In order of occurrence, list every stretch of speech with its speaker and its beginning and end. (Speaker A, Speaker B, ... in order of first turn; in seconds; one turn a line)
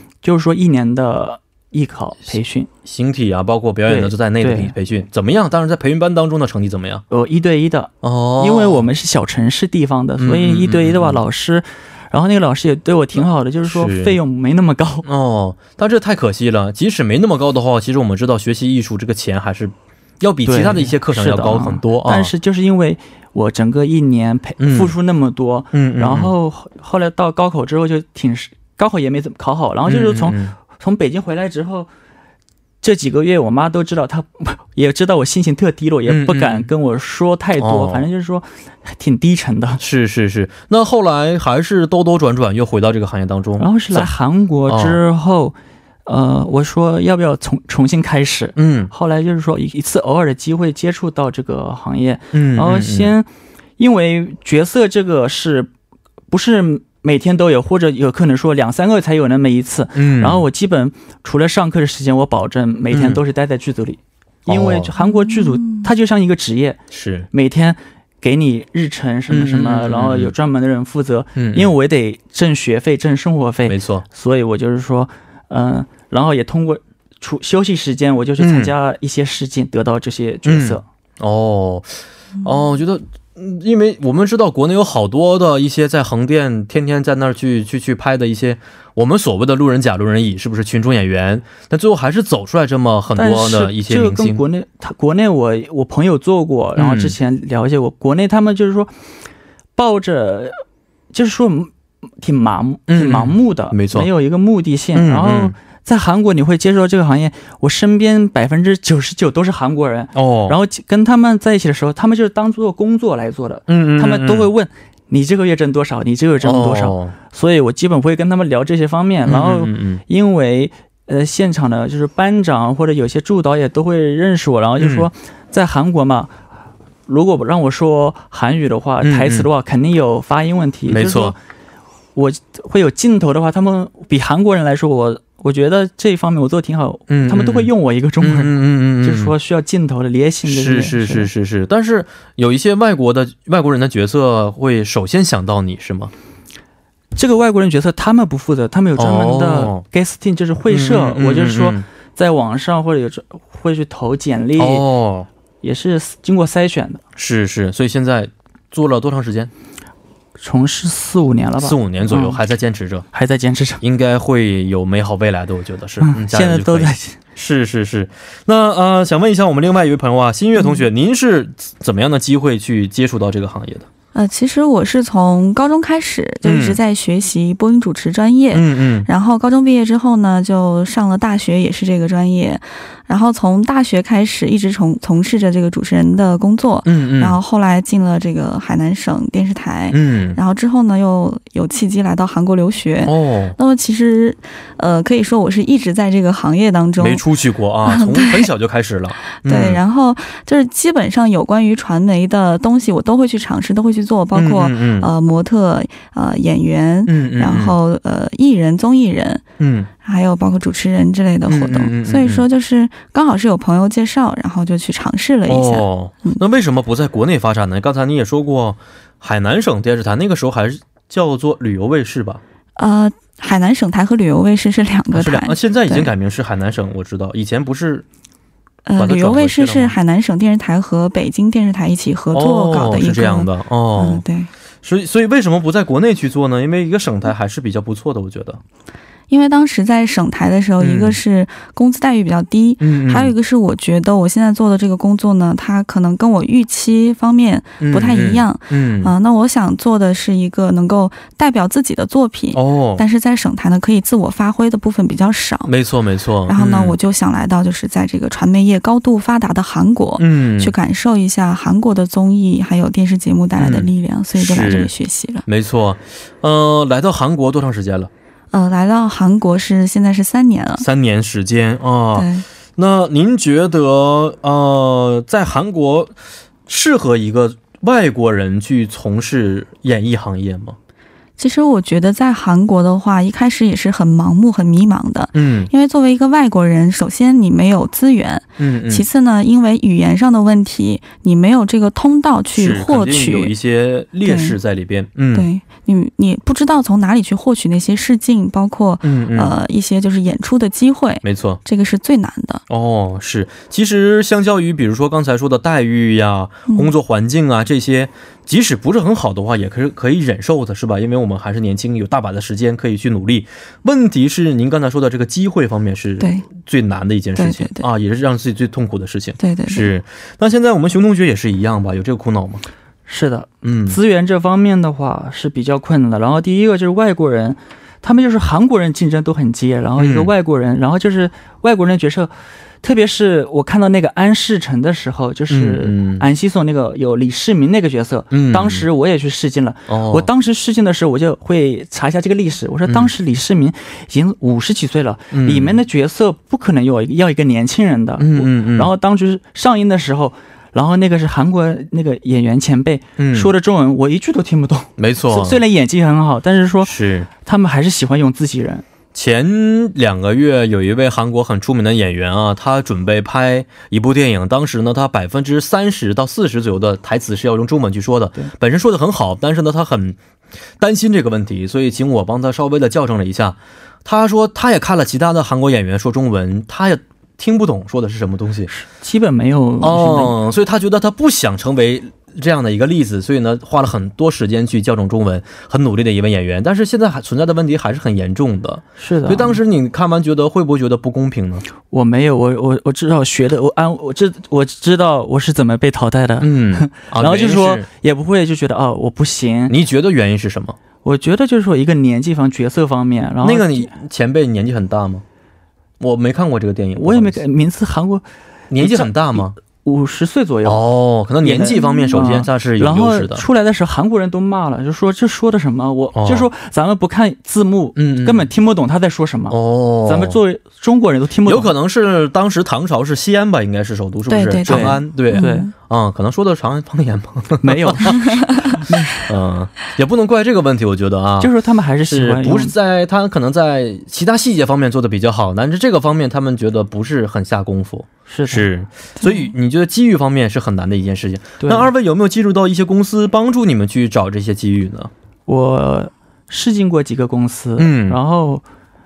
Speaker A: 0.2-2.7
Speaker B: 2.8-7.0
Speaker A: 3.9-4.7
Speaker A: 7.1-15.1
Speaker B: 8.0-8.9
Speaker B: 10.2-11.2
Speaker B: 13.7-14.2
Speaker B: 15.0-22.3
Speaker A: 20.4-31.9
Speaker B: 24.6-24.9
Speaker B: 25.7-26.3
Speaker B: 29.9-30.6
Speaker A: 32.8-39.8
Speaker B: 36.1-36.7
Speaker B: 37.6-38.0
Speaker B: 39.8-44.1
Speaker A: 43.6-45.5
Speaker B: 44.7-45.0
Speaker A: 46.0-53.2
Speaker B: 48.5-48.9
Speaker B: 52.3-53.1
Speaker A: 53.8-55.7
Speaker A: 56.3-66.8
Speaker B: 60.0-60.4
Speaker B: 62.9-63.2
Speaker B: 64.5-64.9
Speaker C: 65.0-65.9
Speaker B: 66.9-67.3
Speaker A: 67.3-80.8
Speaker B: 69.3-70.3
Speaker B: 71.3-71.7
Speaker B: 73.6-74.0
Speaker B: 78.4-78.7
Speaker B: 80.4-94.4
Speaker A: 93.2-98.9
Speaker B: 96.8-97.1
Speaker A: 99.8-100.6
Speaker A: 101.1-126.3
Speaker B: 102.9-104.1
Speaker B: 104.9-105.5
Speaker B: 110.1-110.5
Speaker B: 113.7-114.5
Speaker B: 116.4-117.1
Speaker B: 119.2-120.0
Speaker B: 124.8-125.1
Speaker A: 127.1-131.4
Speaker B: 129.0-129.5
Speaker B: 130.9-131.3
Speaker A: 132.1-141.3
Speaker B: 137.1-139.3
Speaker B: 140.4-146.1
Speaker A: 147.2-154.8
Speaker B: 148.9-149.8
Speaker B: 150.7-151.8
Speaker B: 154.6-155.3
Speaker A: 155.6-157.0
Speaker B: 157.2-159.5
Speaker A: 160.4-162.4
Speaker B: 161.6-163.0
Speaker A: 163.1-163.8
Speaker B: 163.8-173.8
Speaker A: 166.0-167.2
Speaker C: 174.1-197.2
Speaker B: 176.4-176.8
Speaker B: 178.5-179.1
Speaker B: 186.8-187.4
Speaker B: 189.9-190.4
Speaker B: 193.0-193.6
Speaker B: 197.0-199.8
Speaker C: 197.8-198.5
Speaker C: 199.4-209.4
Speaker B: 204.3-205.1
Speaker B: 207.1-207.8
Speaker B: 209.6-209.9
Speaker C: 210.0-216.4
Speaker B: 211.5-212.4
Speaker B: 215.5-222.4
Speaker C: 222.8-226.1
Speaker B: 225.1-228.0
Speaker C: 228.8-234.5
Speaker B: 229.0-229.9
Speaker B: 232.3-234.2
Speaker B: 234.8-238.6
Speaker C: 239.3-255.7
Speaker B: 240.8-241.2
Speaker B: 242.8-243.3
Speaker B: 247.8-249.1
Speaker B: 252.5-253.0
Speaker B: 255.6-256.9
Speaker C: 256.5-265.4
Speaker B: 260.2-260.7
Speaker B: 263.6-264.9
Speaker B: 265.4-268.1
Speaker C: 268.5-270.8
Speaker B: 270.8-276.1
Speaker C: 272.1-272.4
Speaker B: 276.7-280.8
Speaker C: 281.4-293.5
Speaker B: 285.3-285.7
Speaker B: 288.6-289.1
Speaker B: 292.5-295.5
Speaker C: 294.2-294.6
Speaker C: 295.3-302.6
Speaker B: 299.0-299.5
Speaker B: 301.2-301.6
Speaker B: 302.7-322.6
Speaker C: 316.2-316.5
Speaker C: 317.4-317.8
Speaker C: 319.4-319.9
Speaker A: 323.1-332.3
Speaker B: 323.6-324.0
Speaker B: 330.0-330.3
Speaker A: 332.8-358.8
Speaker B: 335.5-336.2
Speaker B: 338.3-338.9
Speaker B: 339.9-340.3
Speaker B: 342.9-343.1
Speaker B: 345.3-345.8
Speaker B: 348.2-348.9
Speaker B: 353.2-353.5
Speaker B: 355.0-355.6
Speaker B: 356.8-357.3
Speaker B: 359.1-370.2
Speaker B: 370.8-378.7
Speaker A: 378.7-380.3
Speaker B: 379.8-391.6
Speaker A: 389.0-389.6
Speaker A: 391.9-399.7
Speaker B: 396.4-397.9
Speaker B: 399.7-400.8
Speaker A: 401.0-403.9
Speaker B: 403.4-405.2
Speaker B: 406.0-407.4
Speaker A: 406.9-410.8
Speaker B: 408.7-409.6
Speaker B: 410.6-413.4
Speaker A: 411.4-421.7
Speaker C: 411.8-412.2
Speaker B: 416.1-416.5
Speaker B: 417.9-418.4
Speaker B: 419.5-420.4
Speaker B: 421.4-431.5
Speaker C: 424.3-425.7
Speaker A: 424.6-425.7
Speaker A: 427.6-429.2
Speaker C: 428.3-428.8
Speaker A: 431.4-432.7
Speaker B: 432.1-445.1
Speaker A: 438.3-438.7
Speaker C: 439.2-439.5
Speaker A: 441.6-441.9
Speaker A: 445.5-448.6
Speaker B: 447.8-448.2